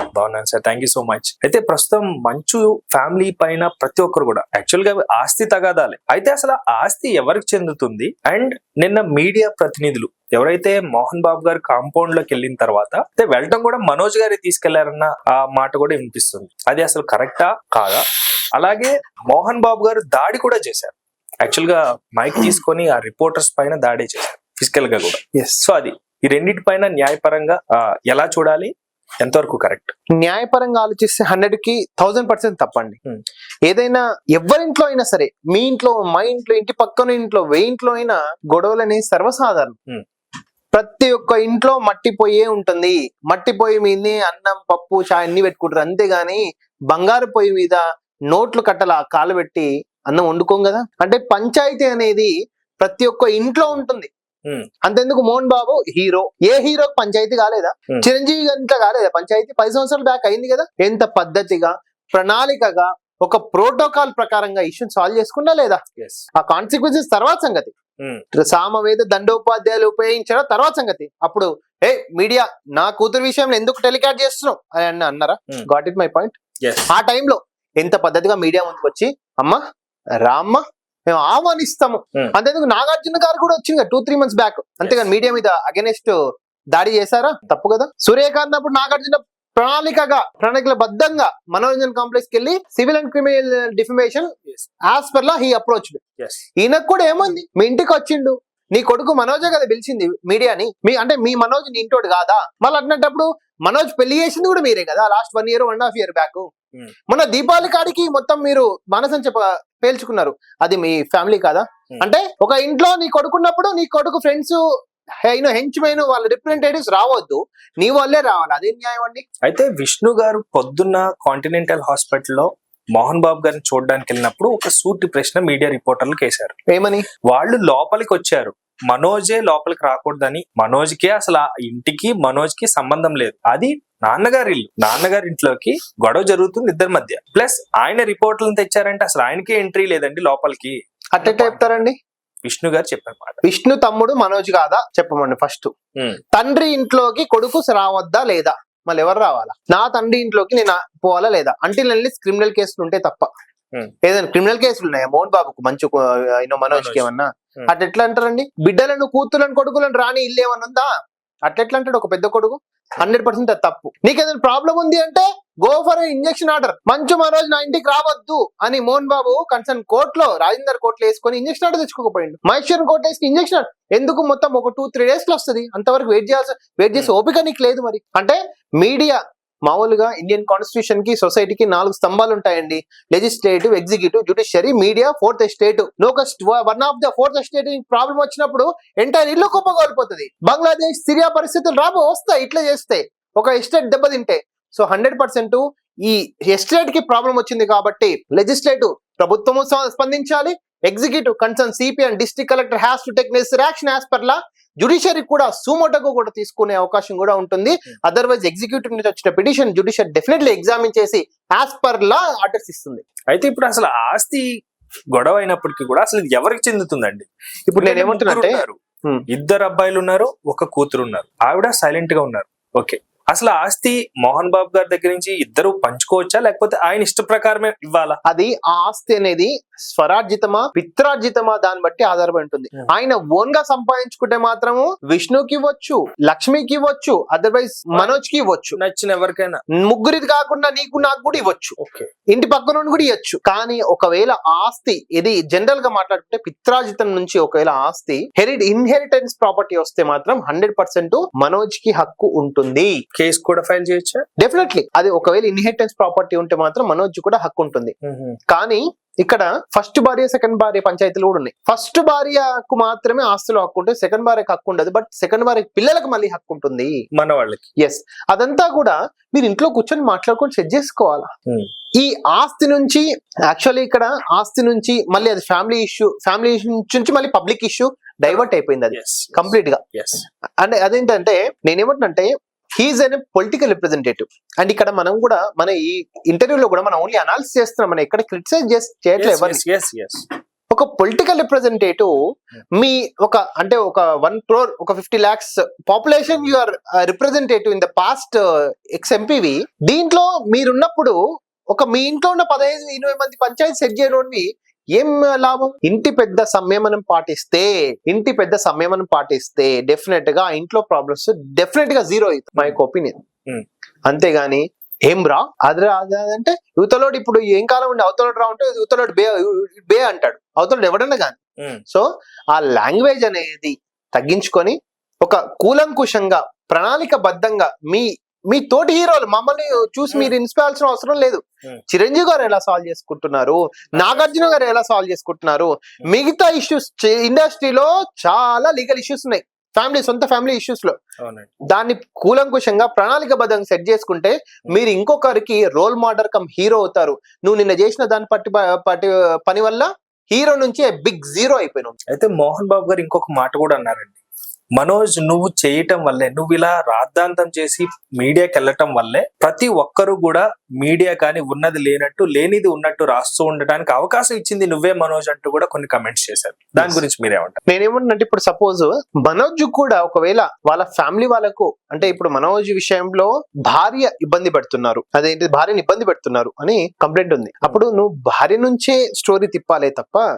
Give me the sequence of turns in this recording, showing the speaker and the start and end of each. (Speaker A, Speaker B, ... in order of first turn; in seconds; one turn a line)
Speaker A: 0.1-18.1
Speaker A: 18.6-29.9
Speaker B: 25.3-25.6
Speaker B: 30.2-33.0
Speaker B: 33.7-39.8
Speaker B: 40.7-54.1
Speaker B: 54.9-65.8
Speaker A: 66.0-66.2
Speaker B: 66.4-67.7
Speaker B: 68.3-76.3
Speaker A: 76.6-76.9
Speaker B: 76.9-79.6
Speaker B: 80.2-86.2
Speaker B: 86.7-94.3
Speaker B: 94.9-96.0
Speaker A: 96.2-96.5
Speaker B: 96.6-106.5
Speaker B: 107.1-114.6
Speaker B: 115.2-119.2
Speaker A: 119.4-126.5
Speaker B: 126.7-127.1
Speaker A: 127.3-141.8
Speaker B: 141.1-142.0
Speaker A: 142.4-143.4
Speaker B: 143.4-145.7
Speaker B: 146.3-153.3
Speaker B: 154.1-160.9
Speaker A: 156.7-157.1
Speaker B: 161.5-213.1
Speaker A: 213.3-214.5
Speaker A: 215.1-218.8
Speaker B: 217.7-219.2
Speaker A: 219.3-228.2
Speaker B: 228.3-238.8
Speaker A: 238.8-239.6
Speaker B: 239.8-241.8
Speaker A: 241.8-242.1
Speaker B: 242.3-252.9
Speaker A: 253.2-254.2
Speaker B: 254.4-257.9
Speaker A: 258.1-258.4
Speaker B: 258.5-267.0
Speaker A: 267.2-267.6
Speaker B: 267.8-271.3
Speaker B: 272.0-279.8
Speaker A: 278.3-280.2
Speaker B: 280.6-289.6
Speaker A: 289.2-290.2
Speaker B: 290.7-292.1
Speaker B: 292.8-298.4
Speaker B: 299.0-301.2
Speaker B: 301.7-313.2
Speaker B: 314.1-321.4
Speaker B: 321.9-341.0
Speaker A: 334.0-334.6
Speaker A: 341.2-341.5
Speaker B: 341.7-352.0
Speaker A: 352.1-354.2
Speaker A: 354.8-367.6
Speaker B: 366.8-367.0
Speaker B: 367.7-380.2